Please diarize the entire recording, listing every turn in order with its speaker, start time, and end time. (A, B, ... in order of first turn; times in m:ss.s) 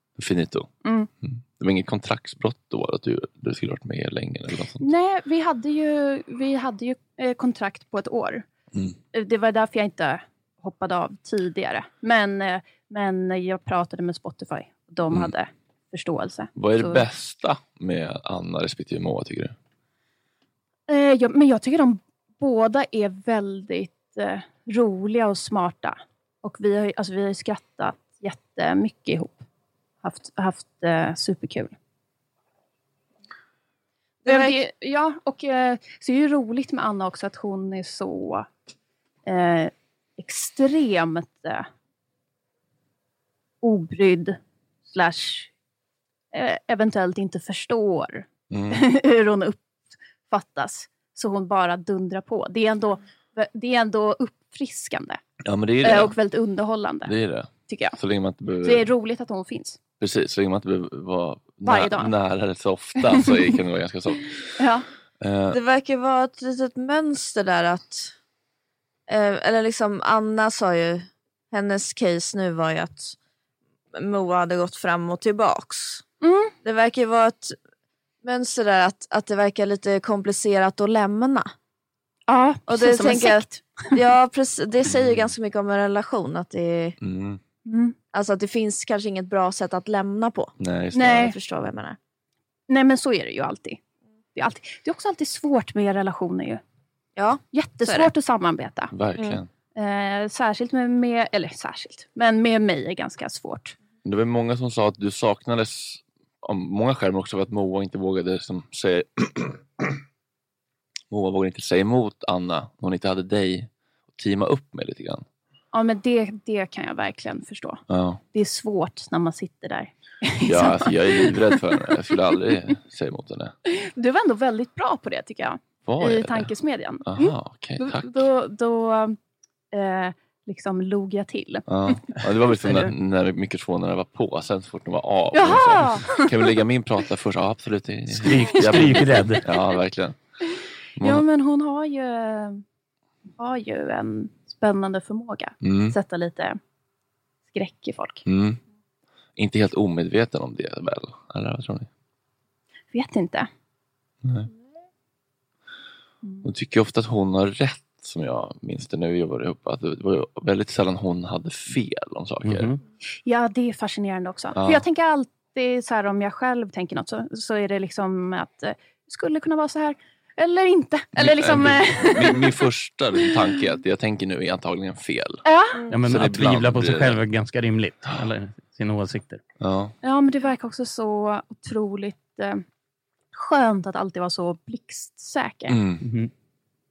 0:00.2-0:00.7 A
0:00.8-0:01.1 B
0:01.2-0:04.9 A
0:04.8-0:08.4 B
0:09.1-0:17.0 B
0:16.6-0:19.5 A
0:20.9-0:29.4 B
0:30.0-0:31.8 B
0:34.2-0:38.5 B
0:34.2-0:34.6 C
0:39.2-0:41.7 B
0:43.6-0:45.5 B
0:46.3-0:49.7 B
0:48.5-0:48.8 A
0:50.2-0:55.2 B
0:55.4-0:56.2 A
0:55.8-0:57.2 B
0:57.0-0:58.9 A
0:57.7-0:58.0 B
0:58.6-0:59.8 B
1:00.0-1:04.6 A
1:01.6-1:02.1 B
1:03.0-1:03.6 B
1:04.6-1:04.8 B
1:05.2-1:05.6 A
1:05.5-1:08.1 C
1:09.1-1:13.2 C
1:14.0-1:16.0 C
1:16.2-1:16.5 B
1:16.6-1:17.6 C
1:18.2-1:21.5 C
1:22.3-1:24.0 B
1:22.7-1:27.0 C
1:24.8-1:25.3 A
1:27.0-1:27.4 A
1:27.6-1:27.9 B
1:28.1-1:30.5 C
1:30.6-1:31.3 A
1:30.9-1:31.3 B
1:31.2-1:32.0 C
1:32.7-1:33.8 B
1:34.3-1:36.6 B
1:37.2-1:38.1 C
1:37.5-1:38.9 B
1:38.9-1:39.5 A
1:39.7-1:43.8 B
1:44.0-1:49.6 A
1:51.1-1:55.2 A
1:55.7-1:57.8 B
1:57.9-1:58.2 A
1:58.3-2:02.4 B
2:00.4-2:03.5 A
2:03.6-2:09.2 B
2:05.8-2:06.5 A
2:07.0-2:08.3 A
2:09.7-2:12.8 B
2:11.7-2:20.2 A
2:15.3-2:16.6 B
2:18.2-2:19.4 D
2:21.0-2:21.2 A
2:21.0-2:22.6 B
2:23.4-2:26.6 B
2:25.6-2:26.0 A
2:27.5-2:28.2 B
2:28.2-2:28.6 A
2:29.4-2:31.9 A
2:32.9-2:33.5 B
2:36.4-2:42.7 A
2:42.4-2:42.8 D
2:43.2-2:53.6 B
2:44.6-2:44.8 A
2:51.2-2:55.4 A
2:55.4-2:55.9 B
2:55.9-2:59.4 D
2:56.1-2:57.2 A
2:59.6-2:59.9 A
3:00.0-3:02.6 B
3:03.3-3:05.8 B
3:05.7-3:06.0 A
3:06.0-3:06.3 D